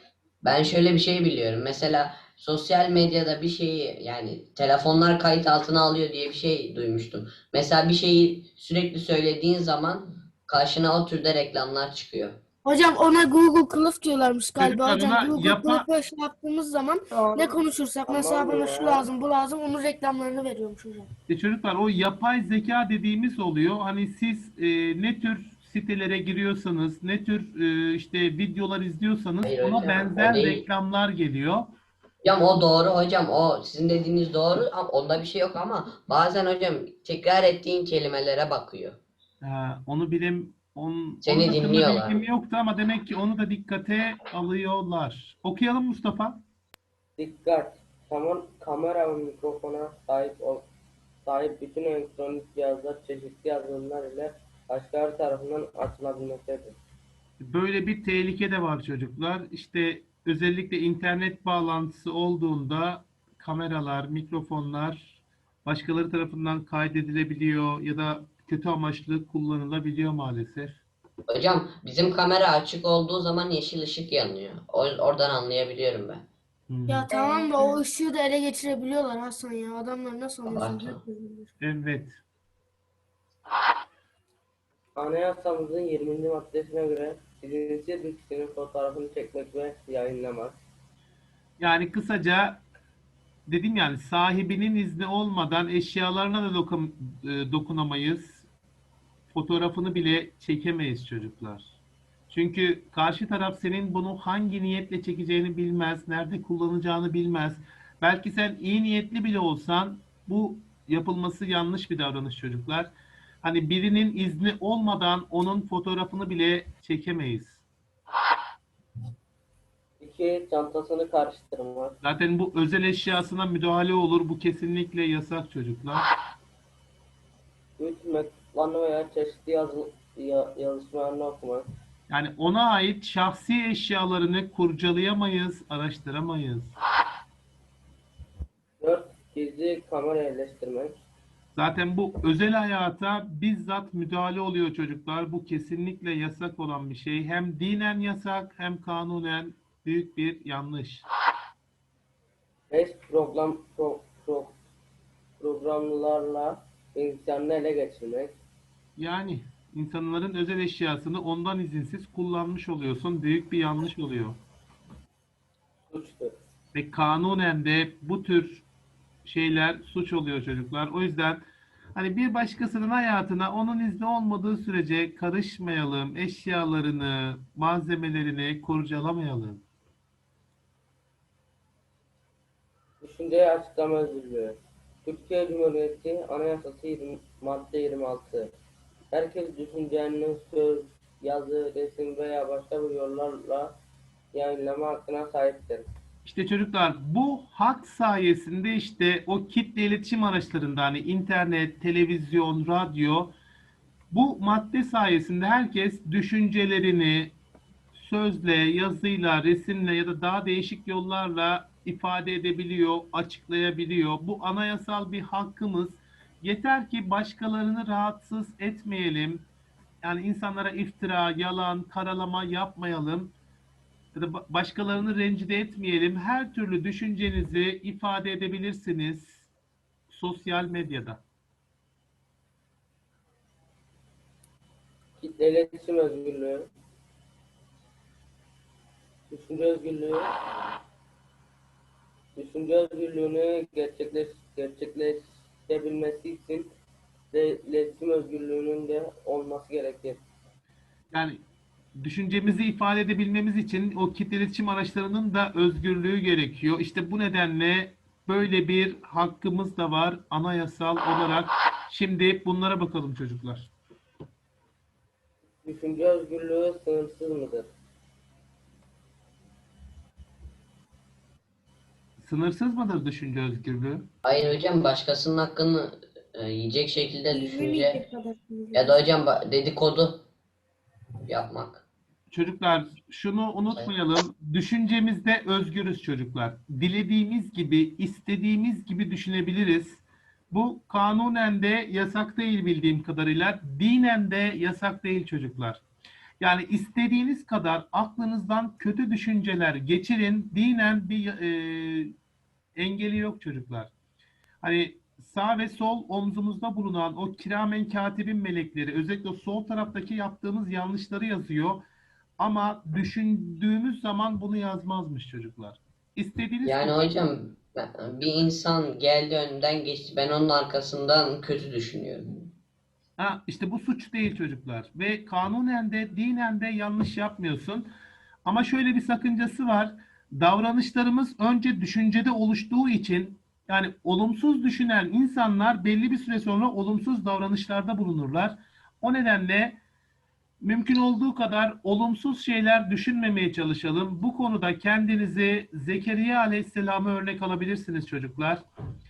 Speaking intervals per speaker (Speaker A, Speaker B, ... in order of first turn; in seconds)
Speaker A: 0.4-12.4, 29.4-30.6, 32.2-39.0, 41.2-42.2, 71.3-76.2, 80.5-81.0, 274.2-278.0, 278.7-280.2, 281.3-281.8, 316.6-322.4
Speaker B: 12.6-21.1, 76.9-81.5, 277.3-278.9
Speaker C: 14.6-15.9, 21.3-31.7, 39.4-46.4, 57.4-70.8, 76.7-77.1, 81.6-82.2, 91.6-92.6, 93.5-98.5, 99.3-101.7, 102.3-112.9, 113.4-117.6, 122.0-126.0, 132.1-136.8, 141.5-151.1, 159.0-164.4, 166.7-168.6, 169.2-171.4, 171.9-179.6, 196.2-203.3, 204.1-207.3, 207.9-219.4, 220.0-223.3, 224.1-229.5, 230.1-231.2, 251.1-251.4, 252.0-263.7, 272.2-274.1, 282.3-295.8, 296.4-302.1, 302.8-303.9, 304.6-311.8, 312.4-317.0, 323.2-327.9, 328.4-339.8, 340.6-348.6
Speaker D: 17.1-17.5, 18.1-19.1, 47.2-50.6, 51.2-56.8, 85.0-90.6, 120.0-122.0, 127.8-131.6, 138.8-141.0, 152.7-154.6, 155.4-158.4, 165.9-166.3, 183.0-188.5, 189.1-193.7, 194.3-195.8, 235.2-236.7, 239.3-240.3, 242.3-246.7, 247.3-250.2, 265.6-267.7